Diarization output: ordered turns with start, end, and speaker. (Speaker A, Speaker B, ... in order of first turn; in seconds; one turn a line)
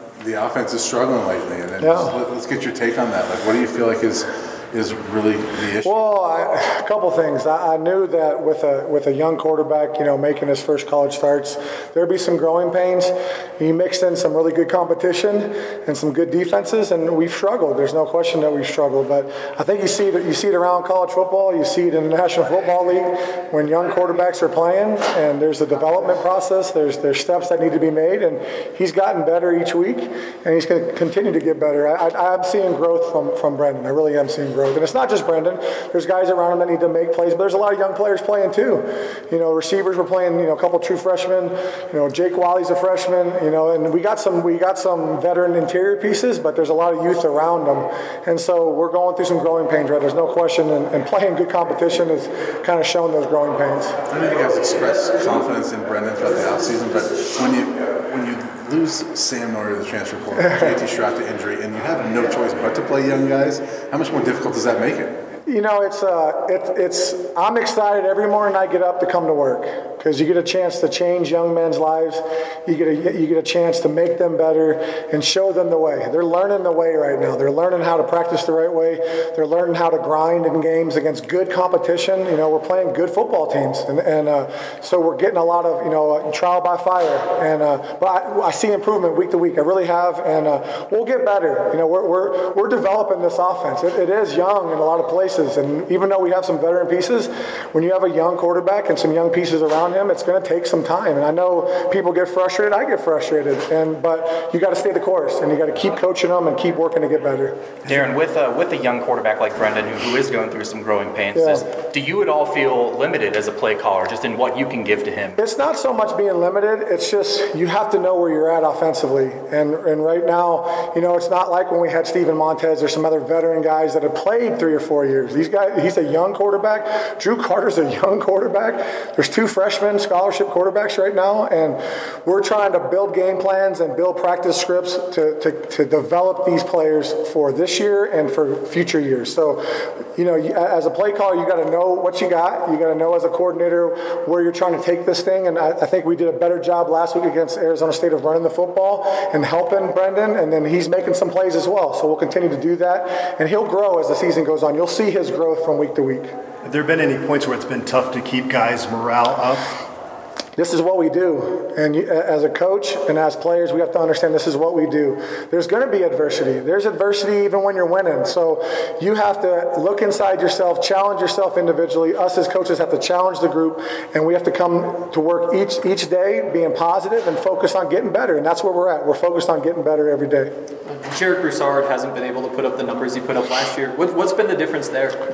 Speaker A: 0.2-5.9
Speaker B: 1.8-2.2
Speaker B: 5.8-54.0
Speaker A: 54.1-65.1
Speaker B: 60.4-60.8
Speaker B: 65.5-107.7
Speaker C: 107.8-115.4
Speaker B: 111.3-111.7
Speaker B: 115.4-139.6
Speaker B: 140.2-156.3
Speaker D: 156.6-159.8
Speaker B: 160.6-180.5
Speaker E: 180.9-185.2